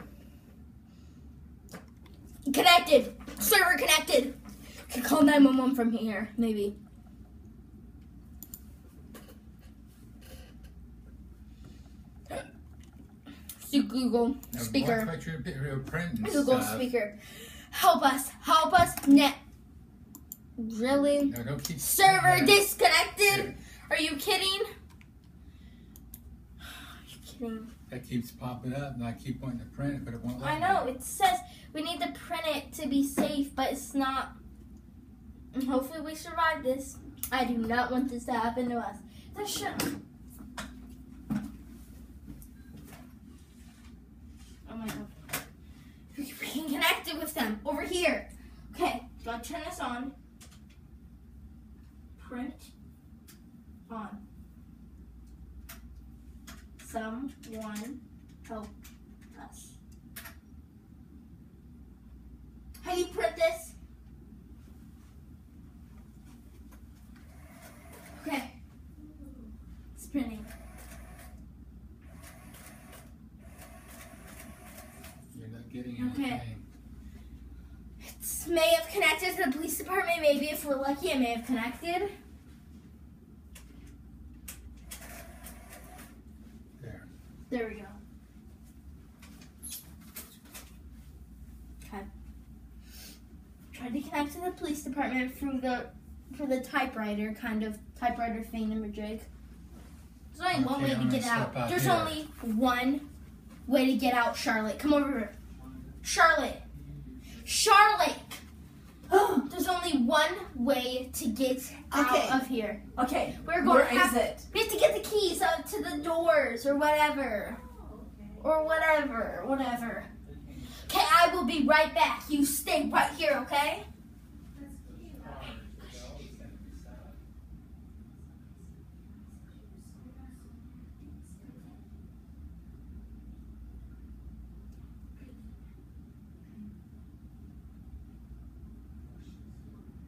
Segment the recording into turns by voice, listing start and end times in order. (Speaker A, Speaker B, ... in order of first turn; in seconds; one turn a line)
Speaker A: 2.5-6.8
Speaker A: 13.6-15.1
Speaker B: 14.5-16.9
Speaker A: 16.2-19.4
Speaker A: 20.6-24.7
Speaker B: 21.2-22.6
Speaker B: 23.3-23.6
Speaker A: 26.6-27.7
Speaker B: 27.9-30.9
Speaker A: 30.4-34.4
Speaker A: 35.5-39.9
Speaker A: 44.7-45.1
Speaker A: 46.1-50.1
Speaker A: 52.2-52.7
Speaker A: 53.9-54.2
Speaker A: 56.8-58.7
Speaker A: 59.3-59.8
Speaker A: 62.8-63.8
Speaker A: 68.2-68.5
Speaker A: 70.0-70.5
Speaker B: 75.3-76.7
Speaker A: 76.0-76.4
Speaker A: 78.0-82.1
Speaker B: 86.8-87.1
Speaker A: 87.5-88.0
Speaker A: 91.8-92.1
Speaker A: 93.7-99.3
Speaker A: 100.3-103.0
Speaker B: 100.5-102.2
Speaker A: 103.7-105.3
Speaker B: 105.5-106.1
Speaker A: 106.0-106.6
Speaker B: 106.6-107.8
Speaker A: 107.4-108.4
Speaker C: 109.1-109.5
Speaker A: 109.5-112.8
Speaker C: 111.9-112.4
Speaker C: 113.0-114.5
Speaker A: 113.4-117.6
Speaker C: 117.6-118.5
Speaker A: 118.4-120.1
Speaker B: 120.2-120.8
Speaker A: 120.9-123.8
Speaker C: 124.6-125.4
Speaker B: 124.8-127.2